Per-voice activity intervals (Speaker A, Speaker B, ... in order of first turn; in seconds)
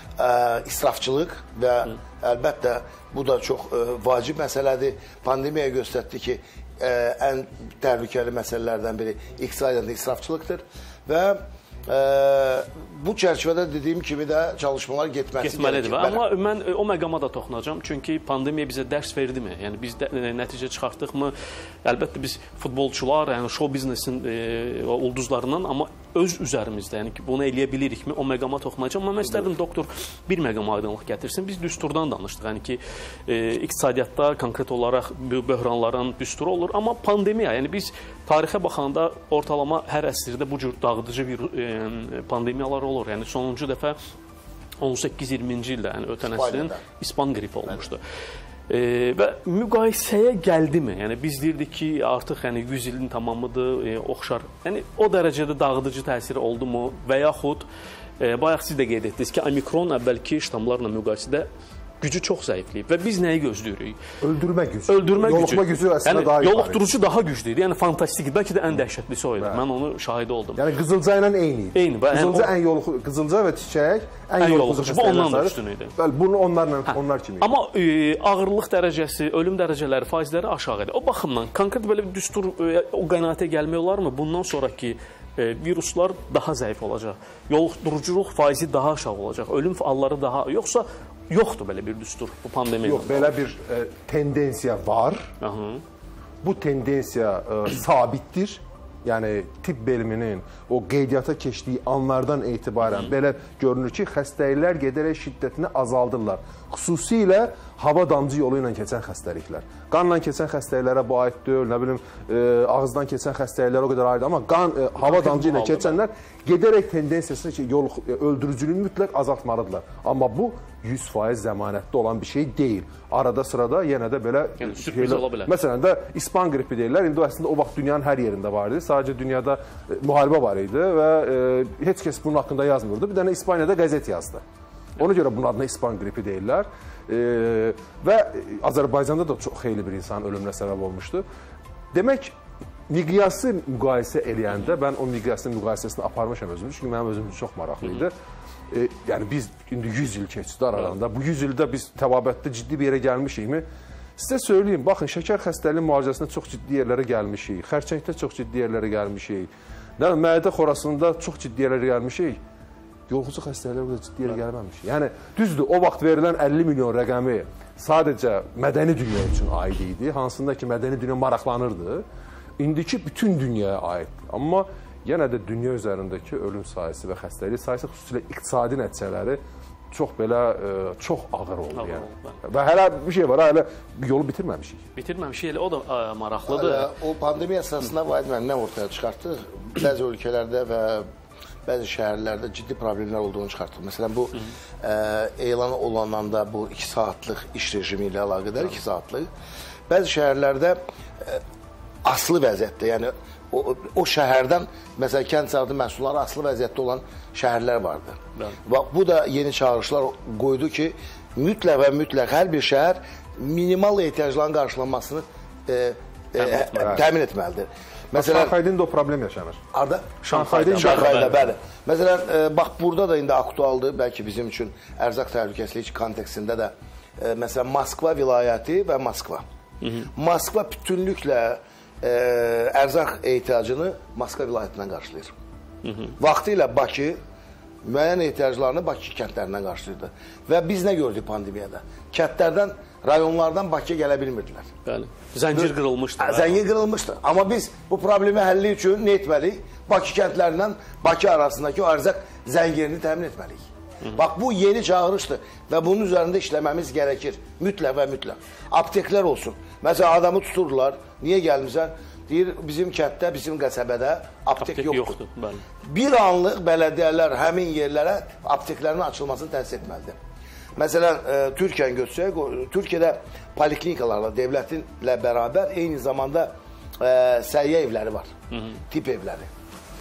Speaker A: 0.2-16.2, 46.3-46.8, 186.5-191.1, 191.7-199.3, 199.9-201.4, 202.0-218.5, 219.7-229.4, 230.2-235.3, 236.2-237.2, 237.8-244.7, 245.5-253.6, 254.1-265.2, 265.8-270.2, 270.8-278.3, 278.9-279.5
Speaker B: 15.4-44.0, 44.8-48.0, 48.7-57.6, 58.2-61.5, 62.0-64.0, 64.9-70.6, 71.7-72.5, 74.4-75.9, 77.4-93.3, 95.4-95.8, 115.0-116.0, 124.6-125.5, 181.7-182.4, 184.9-186.9, 216.3-217.0, 220.2-221.4, 229.8-230.1, 235.8-236.2, 244.8-246.6, 264.6-265.6
Speaker C: 64.2-66.8, 70.6-77.5, 92.8-95.3, 96.4-134.4, 135.0-141.2, 141.9-142.3, 142.9-148.1, 148.7-153.6, 154.2-162.4, 163.1-172.0, 172.6-179.4, 179.9-184.8, 218.1-219.6, 220.3-221.4